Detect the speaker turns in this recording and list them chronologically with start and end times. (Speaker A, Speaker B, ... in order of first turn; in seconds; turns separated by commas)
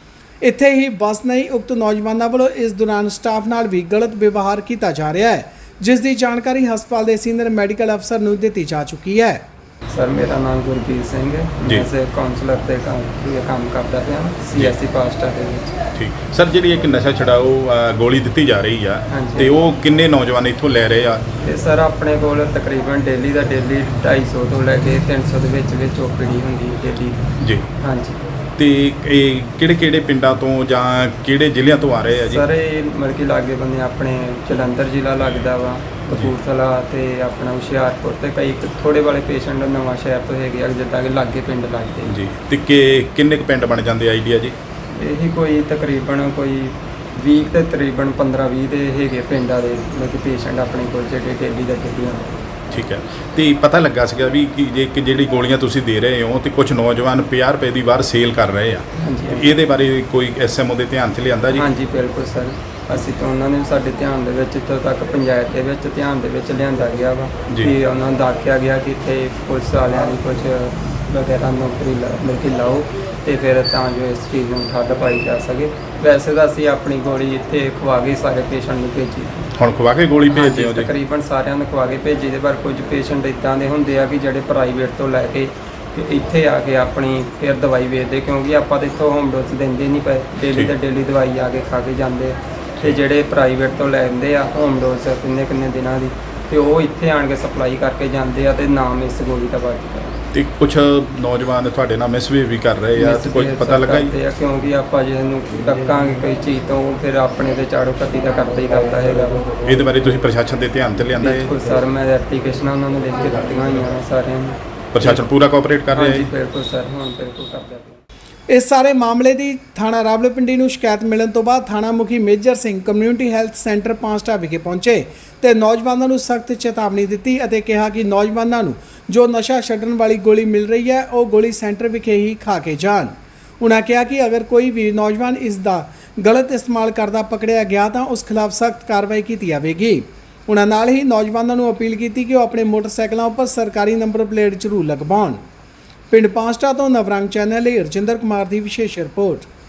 Speaker A: 0.4-9.4, Speaker B: 9.9-15.8, Speaker C: 15.9-21.2, Speaker B: 19.1-19.5, Speaker B: 21.4-28.2, Speaker C: 27.4-27.7, Speaker C: 28.6-32.4, Speaker B: 32.3-42.1, Speaker C: 42.1-44.5, Speaker B: 44.9-52.4, Speaker C: 52.7-61.7, Speaker B: 59.0-59.5, Speaker B: 61.5-79.5, Speaker C: 79.6-80.9, Speaker B: 80.3-100.1, Speaker C: 90.5-90.7, Speaker C: 100.3-104.1, Speaker B: 103.0-109.6, Speaker C: 109.6-111.5, Speaker B: 111.2-115.2, Speaker C: 114.9-116.3, Speaker B: 115.9-118.0, Speaker A: 118.5-145.4, Speaker A: 146.1-149.5